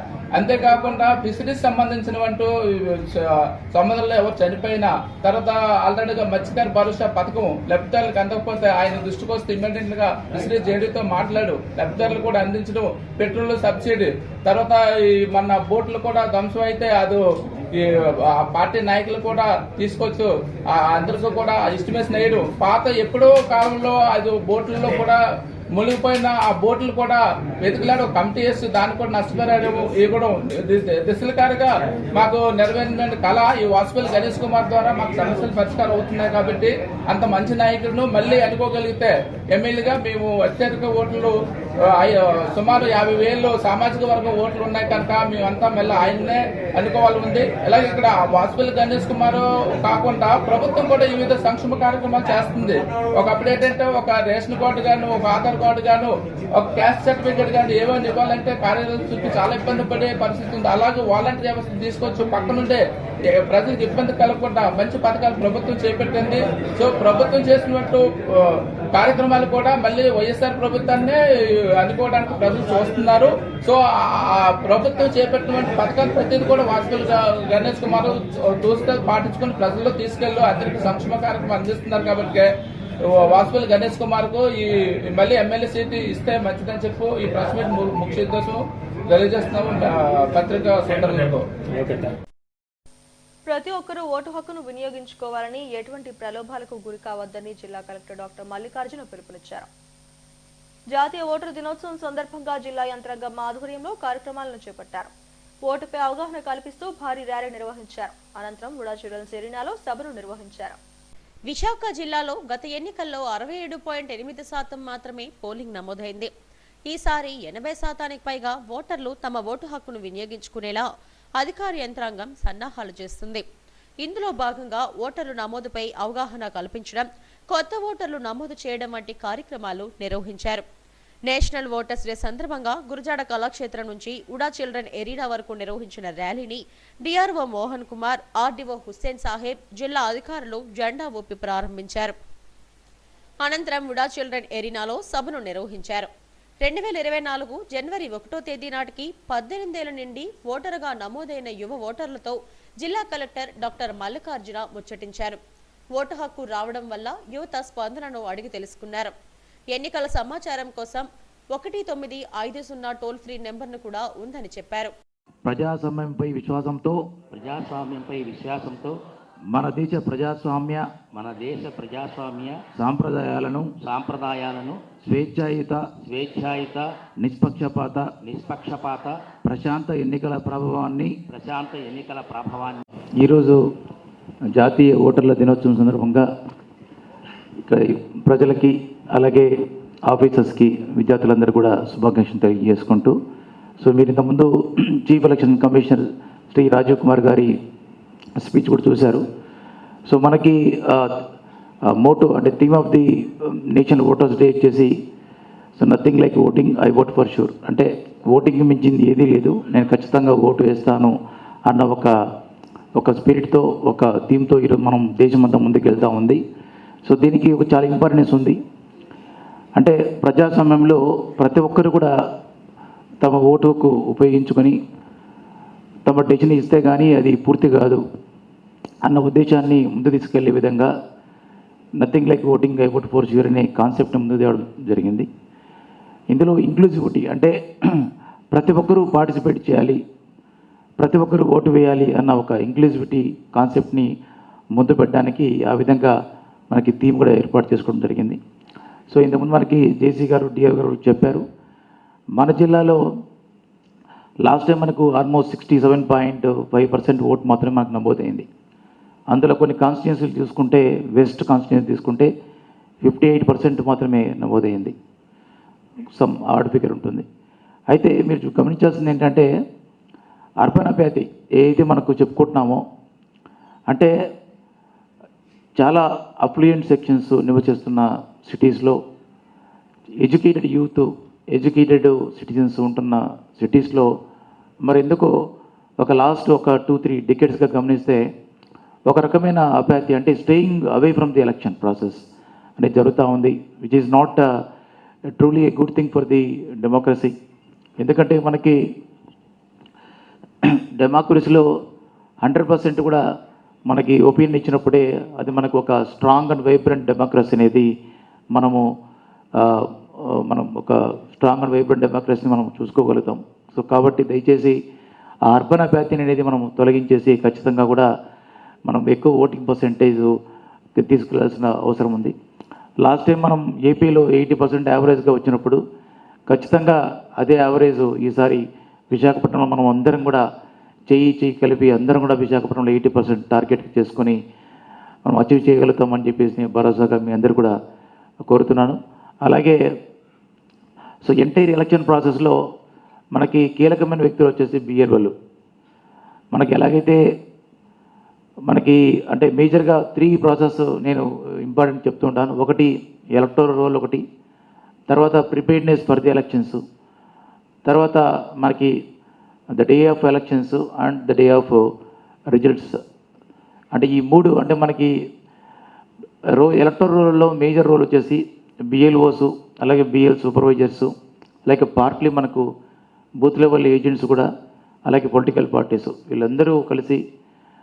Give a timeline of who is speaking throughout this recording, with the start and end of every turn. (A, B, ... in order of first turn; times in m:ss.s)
0:00.4-0:25.2 A
0:25.8-1:11.2 A
1:11.8-1:22.5 A
1:23.0-1:31.5 A
1:33.5-1:39.7 B
1:40.9-1:45.1 B
1:45.6-1:50.8 B
1:51.5-1:56.3 C
1:56.9-2:00.9 C
2:01.4-2:03.4 C
2:04.0-2:10.6 C
2:11.3-2:22.2 C
2:23.4-2:26.1 C
2:26.6-2:35.4 C
2:35.9-2:39.1 C
2:39.7-2:44.9 C
2:45.4-2:47.0 D
2:47.3-2:49.0 E
2:49.5-2:50.8 D
2:51.1-2:52.6 E
2:52.8-2:53.7 D
2:53.8-2:54.8 E
2:55.0-2:55.9 D
2:56.0-2:56.9 E
2:57.2-2:58.1 D
2:58.2-2:59.2 E
2:59.4-3:01.2 D
3:01.3-3:02.8 E
3:03.2-3:03.6 D
3:04.5-3:06.3 D
3:07.6-3:09.5 D
3:10.1-3:13.2 D
3:13.8-3:17.5 D
3:18.4-3:19.2 D
3:20.1-3:21.2 D
3:22.0-3:24.9 D
3:25.8-3:31.2 D
3:31.7-3:32.1 D
3:33.0-3:36.4 D
3:37.1-3:38.6 D
3:39.8-3:42.1 D
3:43.2-3:44.8 D
3:46.1-3:48.0 D
3:49.0-3:50.9 D
3:52.0-3:55.3 D
3:56.3-4:00.0 D
4:01.0-4:04.1 D
4:04.8-4:06.1 D
4:06.7-4:08.4 D
4:09.1-4:11.4 D
4:12.4-4:13.0 D
4:14.5-4:18.5 D
4:19.3-4:22.3 D
4:23.0-4:25.0 D
4:26.2-4:27.2 D
4:27.9-4:29.5 D
4:30.6-4:32.8 D
4:35.8-4:39.0 D
4:40.2-4:44.1 D
4:44.8-4:45.3 D
4:46.0-4:48.2 D
4:49.1-4:52.2 D
4:52.8-4:54.5 D
4:55.4-4:57.4 D
4:58.0-4:58.8 D
5:01.0-5:01.6 D
5:02.4-5:03.2 D
5:03.9-5:07.9 D
5:08.6-5:08.8 D
5:10.5-5:14.8 D
5:15.5-5:18.1 D
5:18.9-5:20.3 D
5:21.0-5:22.4 D
5:23.0-5:25.8 D
5:26.5-5:30.4 D
5:31.1-5:34.4 D
5:35.3-5:37.8 D
5:38.5-5:39.8 D
5:41.2-5:42.6 D
5:43.4-5:45.3 D
5:46.5-5:47.2 D
5:48.7-5:54.2 D
5:55.1-5:56.8 D
5:57.9-5:59.0 D
5:59.8-6:01.9 D
6:02.5-6:03.0 D
6:04.0-6:05.1 D
6:06.6-6:11.1 D
6:11.7-6:12.7 D
6:13.4-6:14.5 D
6:15.1-6:17.2 D